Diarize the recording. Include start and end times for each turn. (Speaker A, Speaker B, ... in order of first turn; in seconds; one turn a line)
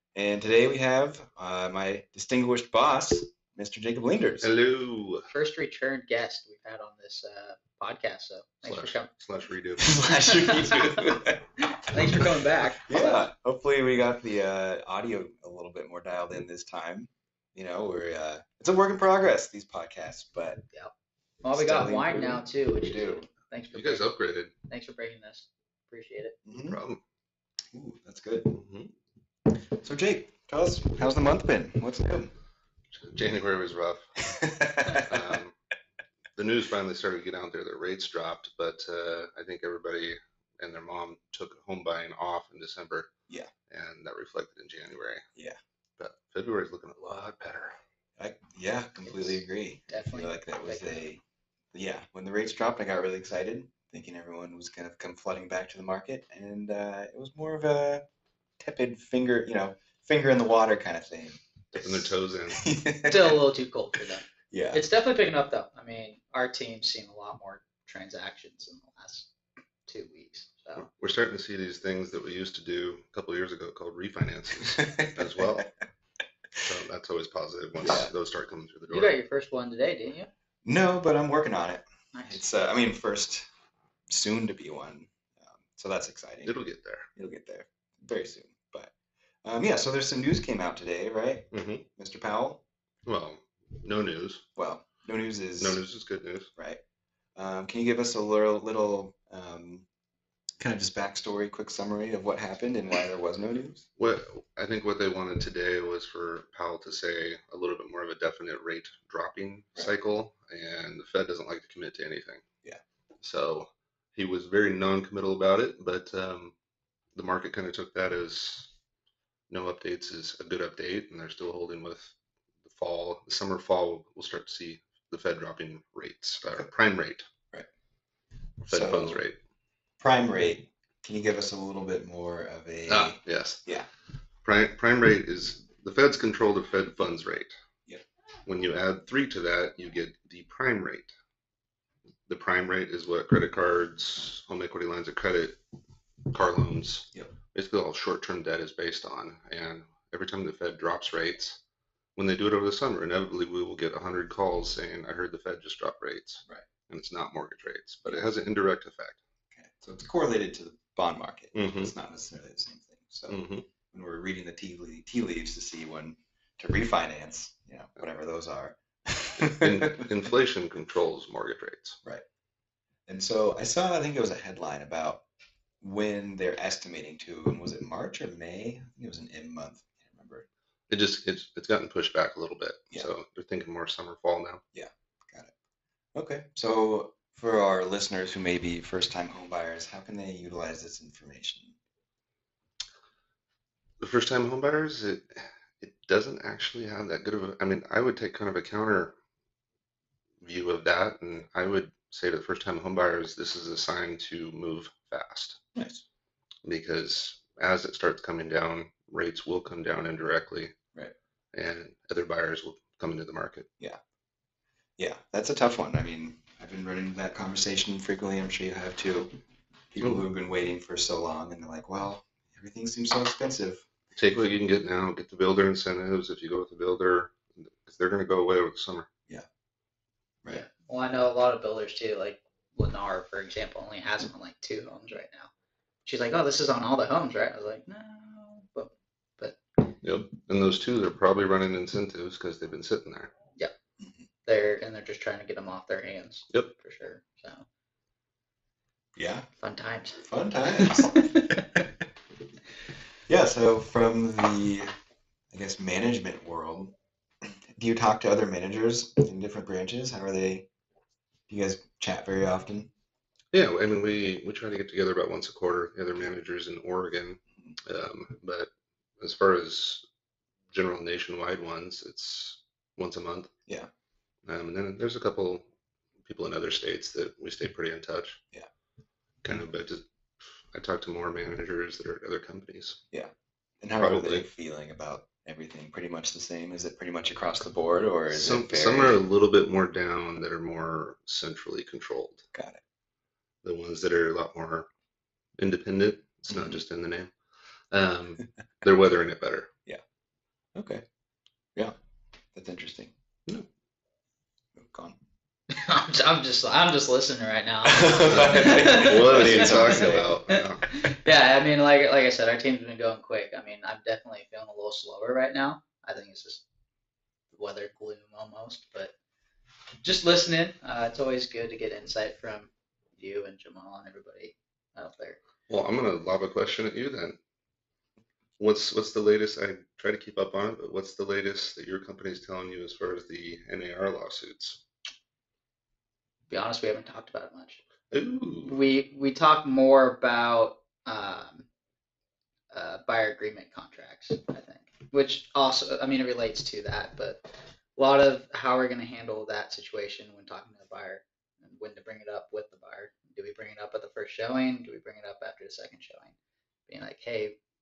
Speaker A: 0.1-4.5
Speaker B: 4.4-5.3
Speaker C: 5.3-9.1
Speaker B: 8.7-10.1
Speaker A: 9.8-20.6
Speaker C: 10.3-13.3
Speaker C: 21.4-26.4
Speaker A: 21.5-23.2
Speaker B: 23.7-24.5
Speaker A: 26.5-26.8
Speaker B: 26.6-27.0
Speaker A: 27.7-28.6
Speaker B: 28.5-28.9
Speaker A: 29.5-32.3
Speaker B: 32.9-34.1
Speaker A: 34.2-35.4
Speaker B: 34.9-35.5
Speaker B: 36.4-43.1
Speaker B: 43.7-45.3
Speaker B: 46.0-47.8
Speaker A: 48.2-51.2
Speaker C: 49.9-51.0
Speaker A: 51.7-58.1
Speaker A: 58.6-63.4
Speaker B: 61.8-62.7
Speaker C: 63.0-69.3
Speaker A: 64.5-64.9
Speaker C: 69.9-70.8
Speaker B: 70.8-75.7
Speaker A: 74.6-75.7
Speaker B: 76.6-79.2
Speaker A: 77.8-78.1
Speaker C: 78.9-80.3
Speaker A: 80.7-83.5
Speaker C: 82.1-82.4
Speaker A: 84.1-86.6
Speaker B: 86.5-87.1
Speaker A: 87.2-88.9
Speaker A: 89.4-92.6
Speaker B: 91.5-91.9
Speaker B: 93.1-94.5
Speaker A: 94.6-95.8
Speaker B: 95.6-96.5
Speaker A: 96.6-96.8
Speaker A: 97.4-99.9
Speaker A: 100.6-103.8
Speaker B: 104.0-112.5
Speaker B: 113.2-116.5
Speaker B: 117.2-118.7
Speaker B: 119.5-127.3
Speaker A: 128.7-129.2
Speaker B: 128.7-129.4
Speaker A: 130.0-133.9
Speaker B: 132.9-133.6
Speaker B: 134.4-137.6
Speaker B: 138.5-141.1
Speaker B: 142.3-145.6
Speaker B: 146.3-151.6
Speaker B: 152.2-159.2
Speaker A: 159.5-170.3
Speaker B: 161.6-161.9
Speaker B: 163.3-163.7
Speaker B: 169.5-172.0
Speaker A: 173.1-175.2
Speaker A: 175.8-180.5
Speaker B: 180.9-184.6
Speaker A: 184.7-185.5
Speaker A: 186.1-191.8
Speaker B: 194.0-199.1
Speaker B: 200.4-205.6
Speaker A: 205.8-206.0
Speaker B: 206.7-210.8
Speaker B: 211.5-213.7
Speaker A: 215.0-219.4
Speaker A: 219.9-223.9
Speaker B: 224.2-229.1
Speaker C: 230.5-235.5
Speaker C: 236.1-239.6
Speaker B: 240.0-243.3
Speaker A: 244.0-244.3
Speaker C: 244.5-247.7
Speaker A: 249.2-249.5
Speaker C: 249.6-250.2
Speaker A: 250.2-252.0
Speaker C: 250.8-251.6
Speaker A: 253.3-254.9
Speaker A: 255.5-260.7
Speaker A: 261.5-262.9
Speaker B: 263.5-270.0
Speaker B: 270.7-273.5
Speaker B: 274.5-275.7
Speaker B: 276.2-278.4
Speaker B: 279.4-280.1
Speaker B: 280.7-283.0
Speaker A: 283.1-289.2
Speaker B: 284.0-284.4
Speaker B: 288.3-292.4
Speaker A: 292.5-292.8
Speaker B: 293.6-294.9
Speaker B: 295.6-297.3
Speaker A: 296.5-296.8
Speaker B: 297.9-299.7
Speaker A: 300.8-301.1
Speaker A: 302.5-303.1
Speaker A: 304.8-305.2
Speaker C: 305.7-316.6
Speaker A: 307.8-310.4
Speaker B: 308.2-310.9
Speaker C: 317.5-319.1
Speaker C: 320.0-325.4
Speaker B: 325.7-327.4
Speaker B: 328.6-334.8
Speaker C: 336.5-337.8
Speaker B: 338.1-338.8
Speaker C: 338.6-341.7
Speaker C: 342.7-356.4
Speaker C: 356.9-357.6